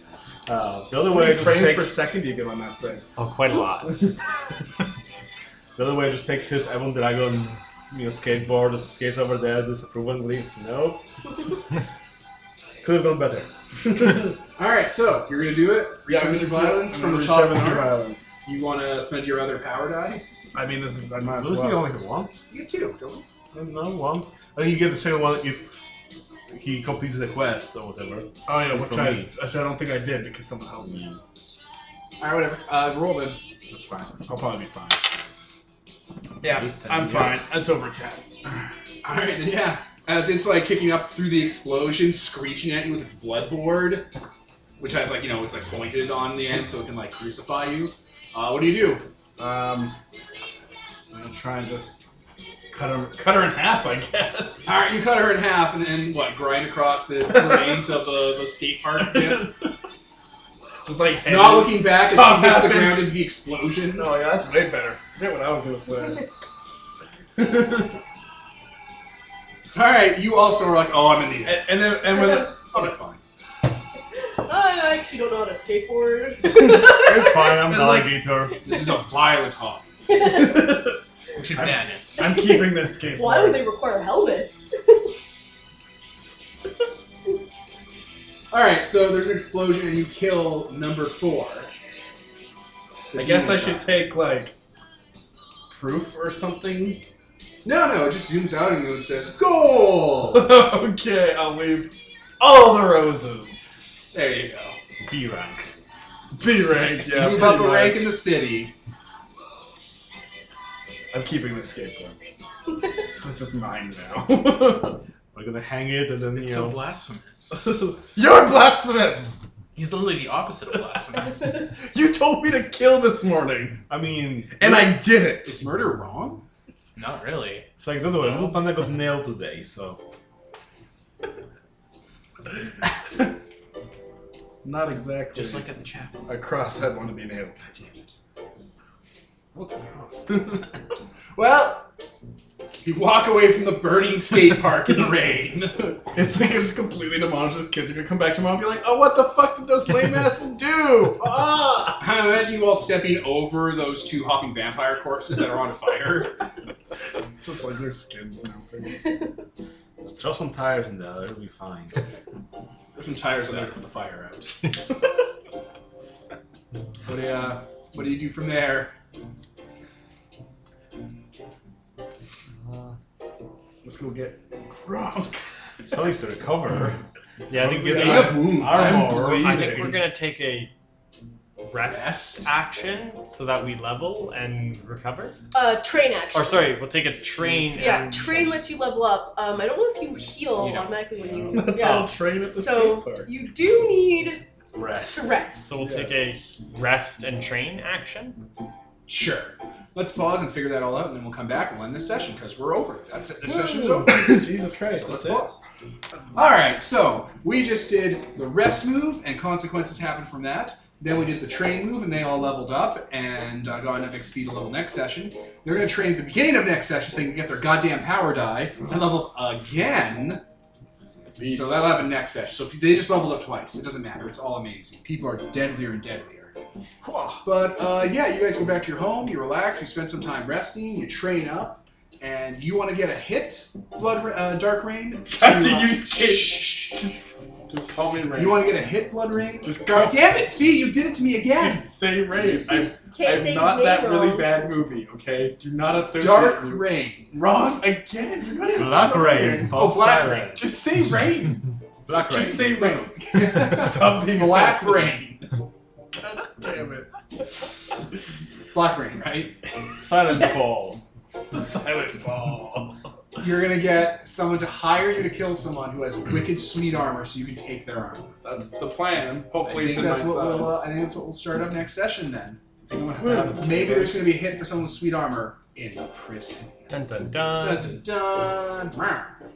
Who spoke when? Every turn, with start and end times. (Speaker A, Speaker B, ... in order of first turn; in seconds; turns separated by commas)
Speaker A: 0.5-2.0, Speaker B: 0.9-3.1, Speaker C: 3.2-4.0, Speaker A: 5.8-11.0, Speaker A: 12.8-13.5, Speaker D: 14.6-20.2, Speaker B: 16.0-18.4, Speaker B: 20.5-21.9, Speaker A: 21.2-22.3, Speaker D: 22.5-23.2, Speaker A: 23.5-25.9, Speaker A: 26.5-29.3, Speaker B: 28.4-31.2, Speaker D: 32.2-33.4, Speaker B: 33.7-35.0, Speaker A: 36.4-37.4, Speaker B: 36.4-38.7, Speaker D: 39.0-44.1, Speaker D: 44.8-49.1, Speaker B: 49.4-50.0, Speaker B: 51.1-52.0, Speaker B: 52.7-54.7, Speaker D: 54.6-59.5, Speaker B: 57.3-57.8, Speaker B: 59.0-59.5, Speaker B: 60.9-63.2, Speaker D: 61.2-64.2, Speaker B: 64.0-66.3, Speaker B: 67.3-67.9, Speaker D: 69.7-71.7, Speaker B: 71.4-72.9, Speaker E: 72.2-72.5, Speaker D: 72.6-73.2, Speaker E: 74.5-77.5, Speaker A: 76.5-78.5, Speaker B: 77.5-78.1, Speaker D: 78.6-79.8, Speaker E: 80.1-80.8, Speaker B: 80.2-80.9, Speaker F: 81.4-82.3, Speaker B: 81.5-83.6, Speaker E: 82.2-85.0, Speaker D: 88.5-91.7, Speaker B: 93.1-94.5, Speaker D: 93.1-93.9, Speaker B: 95.7-97.0, Speaker D: 97.6-100.6, Speaker B: 100.2-103.9, Speaker D: 104.1-104.8, Speaker A: 105.0-105.7, Speaker B: 106.3-108.2, Speaker D: 107.0-108.7, Speaker B: 111.1-112.1, Speaker B: 113.2-115.0, Speaker A: 115.3-116.8, Speaker F: 116.3-117.9, Speaker B: 117.5-119.5, Speaker F: 119.7-121.7, Speaker B: 121.4-123.8, Speaker A: 123.9-124.9, Speaker B: 124.5-125.6, Speaker D: 125.4-126.4, Speaker F: 127.0-127.7, Speaker A: 127.8-130.0, Speaker F: 128.2-128.6, Speaker B: 134.6-135.7, Speaker F: 135.3-136.2, Speaker B: 136.2-137.9, Speaker B: 139.5-140.6, Speaker D: 141.3-141.9, Speaker D: 142.8-146.0, Speaker B: 146.1-152.1, Speaker D: 152.0-156.3, Speaker B: 157.4-159.2, Speaker A: 160.0-162.0, Speaker D: 162.9-164.9, Speaker D: 167.0-168.9, Speaker C: 172.6-172.9, Speaker B: 173.8-175.4, Speaker A: 175.8-177.0, Speaker C: 177.5-180.7, Speaker A: 177.5-180.0, Speaker B: 177.9-180.0, Speaker D: 177.9-179.3, Speaker C: 181.6-185.3, Speaker D: 181.8-182.5, Speaker E: 185.5-186.7, Speaker C: 186.3-188.5, Speaker E: 187.7-194.4, Speaker F: 190.6-190.9, Speaker B: 191.5-193.3, Speaker A: 194.7-195.3, Speaker E: 195.1-195.7, Speaker C: 195.6-198.4, Speaker B: 195.8-196.3, Speaker D: 199.1-205.6, Speaker B: 203.4-205.5, Speaker D: 206.3-220.4, Speaker B: 221.3-221.9, Speaker D: 221.5-226.5, Speaker B: 227.0-227.4, Speaker D: 227.4-237.0, Speaker B: 235.2-237.1, Speaker B: 237.7-238.7, Speaker D: 238.3-241.9, Speaker B: 239.6-240.2, Speaker B: 241.5-251.6, Speaker E: 242.3-244.6, Speaker D: 246.2-247.3, Speaker A: 248.7-250.7, Speaker D: 249.7-250.6, Speaker A: 252.1-252.8, Speaker B: 252.2-255.1, Speaker D: 252.3-255.5, Speaker B: 256.2-257.7, Speaker D: 258.7-259.5, Speaker A: 259.9-261.0, Speaker B: 260.1-260.6, Speaker B: 261.5-263.0, Speaker D: 263.4-268.3, Speaker B: 268.4-270.8, Speaker D: 269.6-272.6, Speaker B: 272.8-274.3, Speaker A: 273.2-273.5, Speaker D: 273.6-277.0, Speaker C: 276.9-277.9, Speaker D: 277.5-279.3